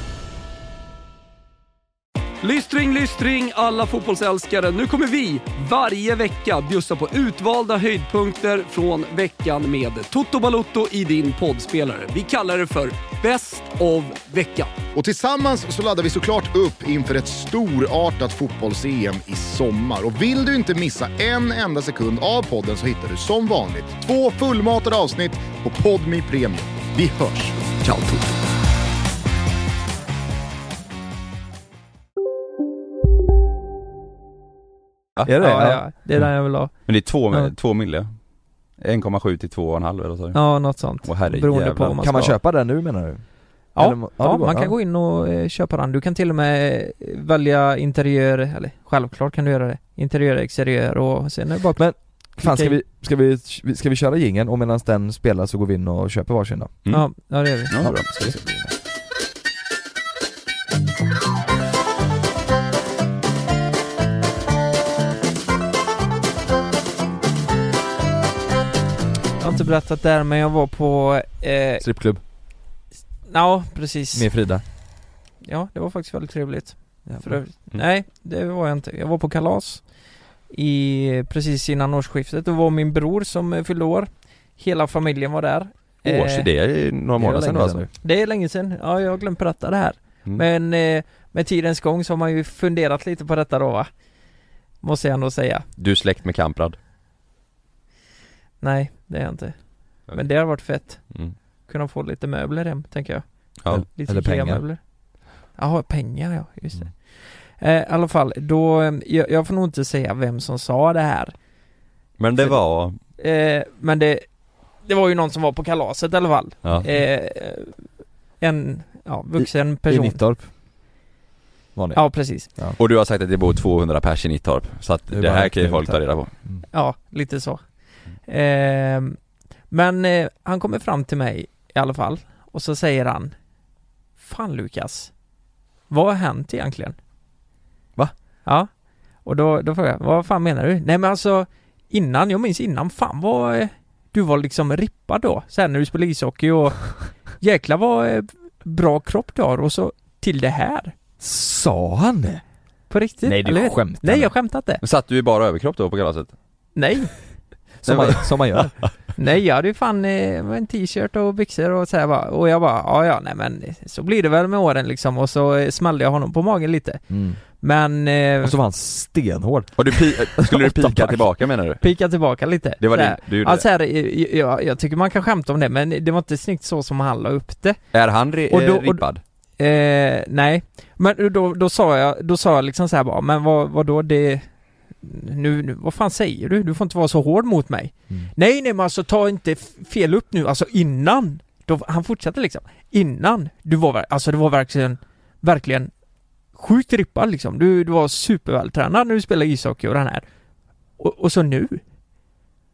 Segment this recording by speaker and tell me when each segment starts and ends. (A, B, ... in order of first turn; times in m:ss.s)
0:02.4-0:14.8 A
0:14.9-0:27.8 B
0:27.9-0:28.2 C
0:35.2-0:35.8 D
0:35.4-0:36.7 E
0:36.8-0:38.1 C
0:38.8-0:40.4 C
0:40.3-0:42.3 E
0:40.9-0:42.0 C
0:42.0-0:43.2 D
0:43.7-0:51.8 E
0:43.8-0:44.7 D
0:51.7-0:56.8 D
0:52.4-0:52.8 E
0:56.9-0:57.7 E
0:57.7-0:58.3 C
0:57.8-0:58.7 D
1:09.4-1:11.8 E
1:11.8-1:12.2 D
1:13.3-1:14.3 E
1:14.1-1:14.6 D
1:15.4-1:19.8 E
1:17.0-1:17.4 D
1:20.5-1:26.4 E
1:26.0-1:27.9 C
1:27.2-1:27.9 D
1:28.0-1:33.9 E
1:34.8-1:35.6 E
1:35.8-1:36.8 C
1:38.6-1:41.1 E
1:41.7-1:44.8 E
1:43.7-1:44.6 D
1:45.6-1:51.3 E
1:52.2-1:53.0 C
1:53.2-1:54.2 E
1:54.8-1:57.8 E
1:58.4-2:00.2 E
1:59.4-2:00.5 D
2:01.8-2:02.8 D
2:01.9-2:02.5 E
2:02.8-2:06.3 C
2:05.1-2:06.6 D
2:06.7-2:07.6 E
2:08.3-2:09.2 E
2:09.7-2:13.3 E
2:14.2-2:15.1 E
2:15.9-2:17.0 E
2:19.2-2:30.9 E
2:31.2-2:32.4 D
2:32.9-2:34.8 E
2:33.2-2:34.3 D
2:34.8-2:36.3 C
2:36.8-2:37.1 E
2:37.8-2:38.7 D
2:37.8-2:38.7 C
2:39.2-2:47.0 E
2:47.1-2:47.4 D
2:47.6-2:48.5 E
2:48.4-2:51.2 D
2:49.8-2:51.8 C
2:51.8-2:57.8 E
2:52.8-2:53.6 C
2:57.9-2:59.2 C
2:58.5-2:59.0 E
2:59.6-3:04.4 E
3:05.0-3:15.9 E
3:16.5-3:20.2 E
3:21.0-3:21.8 E